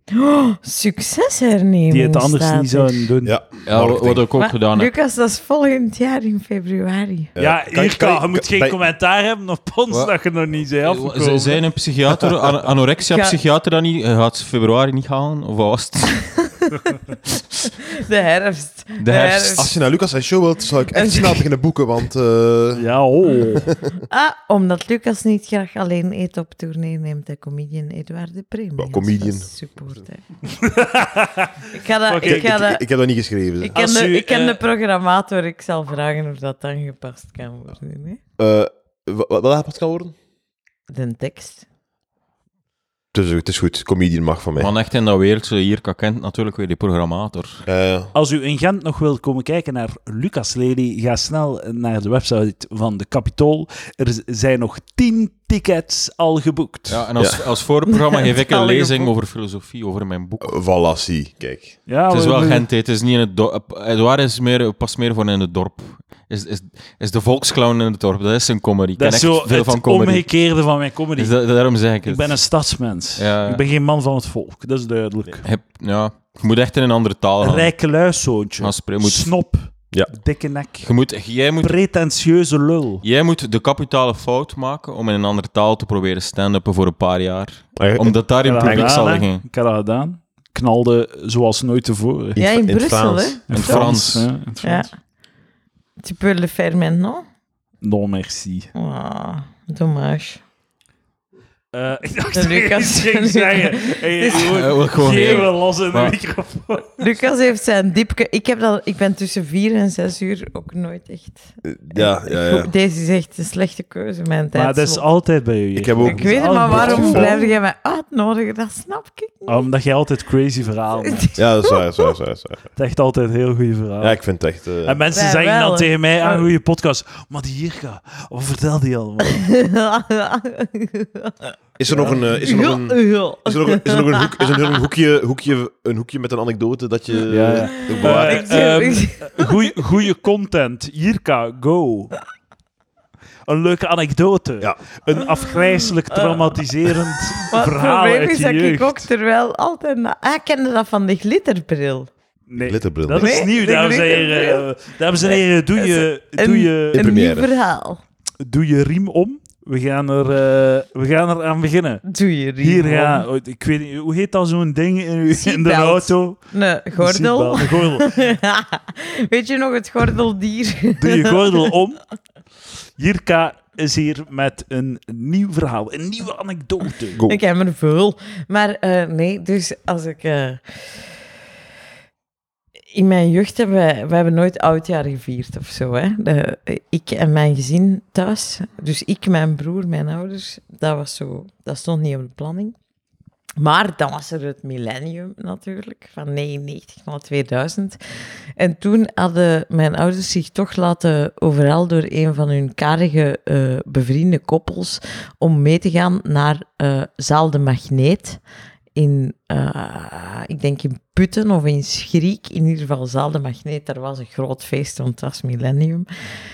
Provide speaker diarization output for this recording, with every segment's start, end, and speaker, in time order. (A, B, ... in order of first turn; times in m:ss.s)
0:00.1-0:03.0 A
0:01.9-0:03.4 B
0:03.2-0:04.2 C
0:03.6-0:04.9 D
0:04.4-0:07.3 A
0:07.3-0:08.8 C
0:07.4-0:11.6 B
0:10.8-0:16.2 D
0:13.1-0:13.4 A
0:16.4-0:17.0 A
0:17.9-0:19.7 A
0:19.0-0:19.7 D
0:19.5-0:22.8 C
0:20.9-0:21.4 A
0:22.8-0:23.7 B
0:24.1-0:30.2 A
0:28.8-0:29.5 C
0:30.5-0:32.5 B
0:31.7-0:32.8 A
0:32.2-0:33.8 C
0:33.6-0:38.2 A
0:33.7-0:34.6 B
0:38.4-0:40.1 C
0:40.9-0:41.6 A
0:43.1-0:44.7 C
0:44.6-0:47.6 D
0:47.7-0:48.1 C
0:48.1-0:57.0 B
0:56.9-1:00.6 D
0:57.2-0:57.4 C
0:57.9-0:59.1 A
1:00.4-1:01.7 C
1:01.9-1:02.6 B
1:02.1-1:10.3 D
1:09.0-1:11.3 B
1:11.2-1:12.5 D
1:12.0-1:15.4 B
1:13.2-1:13.6 D
1:15.4-1:17.7 D
1:17.4-1:21.0 B
1:18.6-1:19.3 D
1:20.8-1:21.8 D
1:21.6-1:23.0 B
1:23.0-1:29.4 D
1:27.8-1:29.0 C
1:28.4-1:32.4 B
1:32.4-1:33.4 C
1:32.4-1:33.9 A
1:33.5-1:34.9 B
1:33.5-1:34.3 D
1:34.6-1:34.9 A
1:36.0-1:37.2 A
1:37.8-1:38.7 B
1:38.7-1:40.4 A
1:41.7-1:47.0 B
1:42.3-1:44.5 A
1:44.5-1:46.1 D
1:47.0-1:55.0 A
1:51.6-1:52.7 C
1:54.5-1:57.5 B
1:55.7-1:57.4 C
1:56.0-1:59.6 A
1:59.4-2:01.4 B
2:01.0-2:02.1 A
2:01.4-2:02.7 C
2:02.8-2:04.2 B
2:04.0-2:05.0 C
2:04.8-2:09.4 B
2:05.1-2:06.4 A
2:09.4-2:11.5 A
2:11.8-2:18.6 C
2:11.9-2:12.2 B
2:12.4-2:14.5 A
2:17.3-2:22.1 B
2:17.8-2:19.5 A
2:23.5-2:29.1 B
2:26.2-2:26.4 A
2:27.4-2:32.1 A
2:32.5-2:37.1 B
2:32.6-2:33.4 C
2:33.1-2:34.6 A
2:35.2-2:38.0 A
2:36.9-2:37.5 C
2:38.4-2:42.0 B
2:42.0-2:43.2 A
2:42.6-2:46.4 B
2:45.3-2:51.4 A
2:47.0-2:48.1 B
2:51.0-2:52.0 B
2:53.0-2:57.2 B
2:57.1-2:57.4 C
2:57.2-3:01.0 A
3:02.9-3:12.7 A
3:13.6-3:18.0 A
3:18.6-3:28.4 A
3:28.9-3:36.1 A